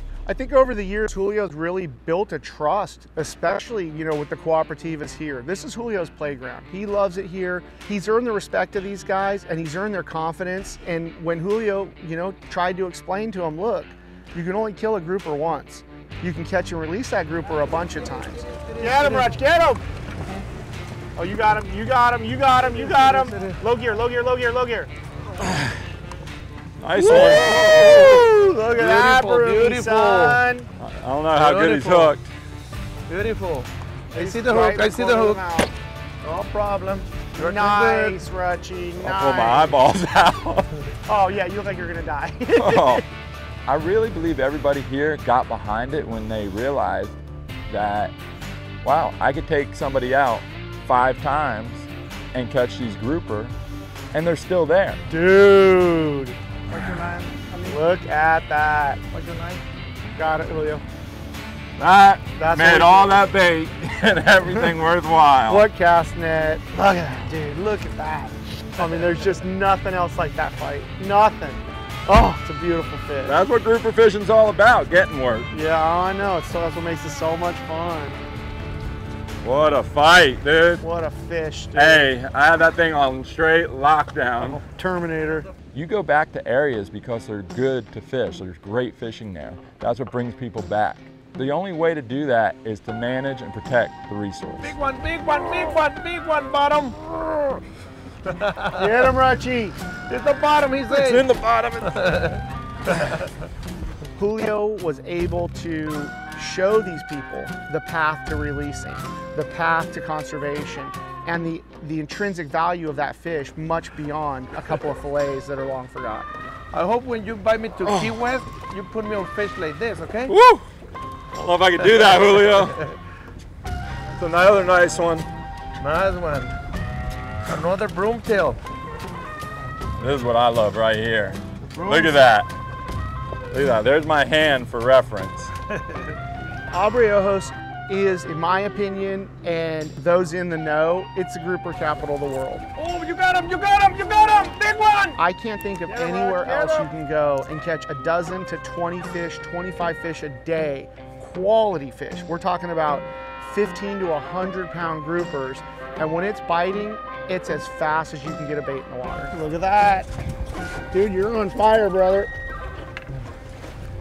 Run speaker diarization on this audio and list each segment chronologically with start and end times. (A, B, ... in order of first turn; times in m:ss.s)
0:00.2-0:19.8 A
0:18.6-0:19.3 B
0:21.2-0:24.9 A
0:22.6-0:23.6 B
0:25.4-0:25.8 C
0:26.8-0:28.2 C
0:27.0-0:30.7 A
0:27.0-0:30.4 B
0:30.8-0:32.3 C
0:31.3-0:32.2 B
0:33.1-0:35.4 B
0:34.1-0:35.7 A
0:36.2-0:38.2 B
0:37.4-0:39.8 A
0:39.0-0:40.7 C
0:41.0-0:43.0 A
0:42.6-0:43.0 C
0:43.6-0:47.2 C
0:47.7-0:48.1 C
0:48.8-0:53.5 C
0:54.1-0:55.0 C
0:55.1-0:59.0 A
0:59.1-0:59.6 B
1:00.1-1:00.8 A
1:01.8-1:05.7 C
1:02.3-1:03.2 A
1:05.5-1:13.4 A
1:13.2-1:15.5 C
1:15.5-1:18.2 A
1:19.4-1:20.8 C
1:20.8-1:22.1 A
1:21.7-1:24.6 C
1:24.4-1:25.5 A
1:25.7-1:34.8 C
1:34.6-1:37.6 B
1:38.3-1:39.1 B
1:38.7-1:39.8 A
1:40.1-1:41.2 B
1:40.9-1:42.0 C
1:41.8-1:43.3 B
1:44.2-1:56.3 A
1:56.7-2:00.3 B
1:57.8-1:58.1 C
2:00.3-2:00.6 C
2:01.3-2:02.8 C
2:01.8-2:02.9 B
2:04.1-2:05.3 C
2:05.8-2:06.6 B
2:07.5-2:08.6 B
2:10.0-2:12.5 C
2:11.7-2:12.2 A
2:13.5-2:15.5 C
2:16.7-2:22.6 A
2:22.8-2:25.2 B
2:25.2-2:40.1 A
2:25.9-2:26.9 B
2:40.9-2:42.3 A